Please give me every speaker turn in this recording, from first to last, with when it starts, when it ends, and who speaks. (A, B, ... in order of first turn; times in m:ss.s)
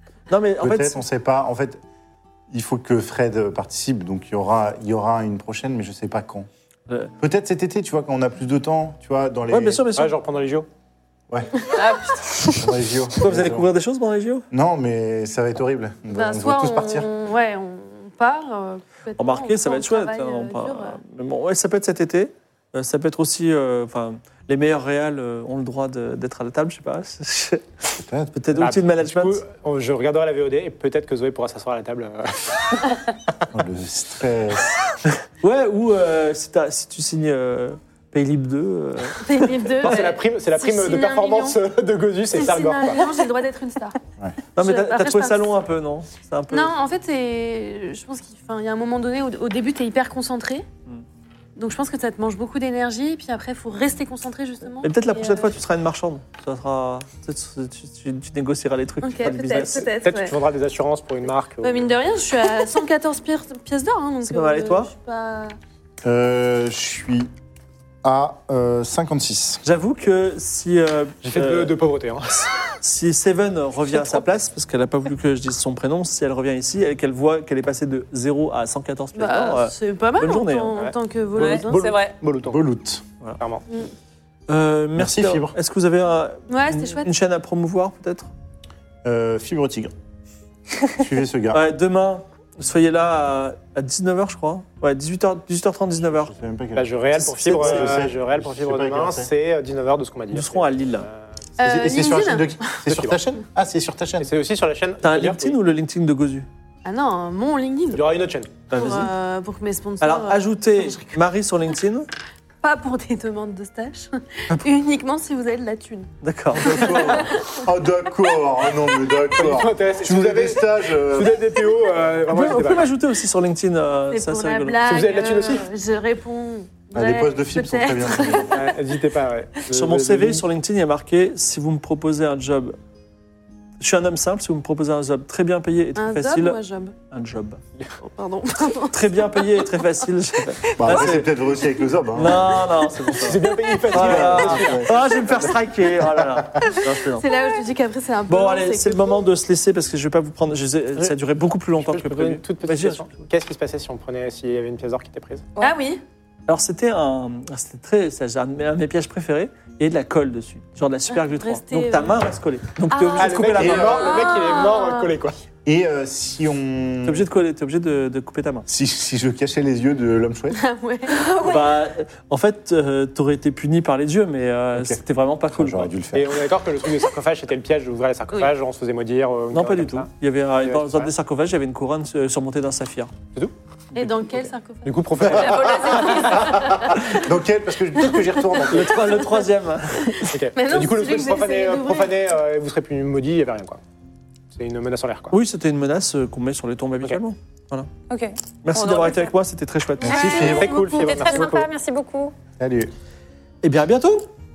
0:00.3-0:01.0 A
0:00.6-0:01.8 B
0:02.5-0:06.5 B
0:07.2-0:09.9 B
0:09.5-0:10.2 A
0:10.0-0:10.7 C
0:11.3-0:11.7 B
0:11.7-0:12.7 D
0:12.5-0:13.7 B
0:13.2-0:14.4 A
0:14.5-0:17.1 B
0:16.1-0:21.0 E
0:19.2-0:29.4 A
0:28.0-0:28.3 B
0:28.5-0:33.0 C
0:33.5-0:34.9 B
0:35.4-0:40.2 A
0:39.2-0:40.0 E
0:39.8-0:43.2 C
0:40.6-0:41.6 E
0:42.3-0:44.0 E
0:44.6-0:46.7 A
0:44.6-0:45.6 E
0:46.5-0:50.6 E
0:51.6-0:55.5 E
0:54.8-0:59.9 A
0:59.0-1:00.4 E
1:00.0-1:02.0 C
1:01.6-1:05.6 E
1:04.2-1:04.9 A
1:06.0-1:07.3 B
1:08.0-1:09.6 B
1:09.6-1:11.7 A
1:11.2-1:12.5 C
1:12.8-1:20.8 A
1:19.1-1:21.9 E
1:20.8-1:22.6 C
1:21.4-1:22.2 D
1:22.4-1:23.0 B
1:23.4-1:23.6 C
1:24.5-1:28.3 A
1:25.0-1:25.6 B
1:26.5-1:27.1 E
1:29.0-1:29.9 B
1:30.9-1:31.6 B
1:31.5-1:36.3 A
1:36.1-1:39.3 B
1:36.8-1:41.2 C
1:37.1-1:38.1 A
1:40.3-1:41.1 A
1:41.6-1:42.8 E
1:41.6-1:44.3 B
1:42.8-1:43.2 C
1:44.2-1:45.6 C
1:45.0-1:46.5 A
1:46.8-1:48.0 E
1:47.9-1:48.5 C
1:48.7-1:49.1 A
1:48.7-1:51.1 E
1:50.0-1:52.1 A
1:52.6-1:57.6 E
1:56.2-1:57.2 A
1:56.5-2:01.4 B
1:59.4-2:02.9 C
2:02.3-2:04.8 A
2:04.1-2:08.7 E
2:04.8-2:05.7 C
2:06.9-2:08.6 B
2:08.5-2:10.4 C
2:09.7-2:12.8 A
2:13.8-2:16.6 A
2:16.0-2:16.9 E
2:17.1-2:17.6 A
2:18.0-2:20.0 E
2:18.9-2:21.3 A
2:20.8-2:22.6 B
2:22.1-2:27.3 A
2:23.1-2:25.4 C
2:23.4-2:23.8 E
2:23.9-2:25.2 B
2:26.2-2:26.7 B
2:26.6-2:29.2 E
2:28.3-2:33.2 A
2:31.8-2:35.5 C
2:35.6-2:36.0 E
2:36.5-2:44.2 A
2:41.1-2:42.2 E
2:42.9-2:45.1 E
2:43.2-2:45.4 C
2:43.5-2:44.1 B
2:45.6-2:47.3 B
2:47.0-2:48.6 A
2:48.7-2:50.6 B
2:50.5-2:51.7 E
2:51.4-2:55.9 A
2:54.7-2:55.0 B
2:55.5-2:56.4 B
2:56.1-3:01.1 C
2:59.5-3:03.1 A
3:03.9-3:04.9 E
3:04.2-3:06.3 C
3:05.2-3:06.5 D
3:05.2-3:09.2 B
3:06.1-3:07.2 E
3:08.0-3:09.4 E
3:08.7-3:10.4 A
3:10.0-3:12.2 E
3:10.3-3:13.8 C
3:14.5-3:15.3 C
3:15.3-3:17.9 A
3:18.1-3:19.3 D
3:18.6-3:20.4 A
3:20.0-3:22.3 D
3:20.0-3:20.8 B
3:20.3-3:21.7 C
3:22.6-3:22.9 B
3:23.6-3:24.3 A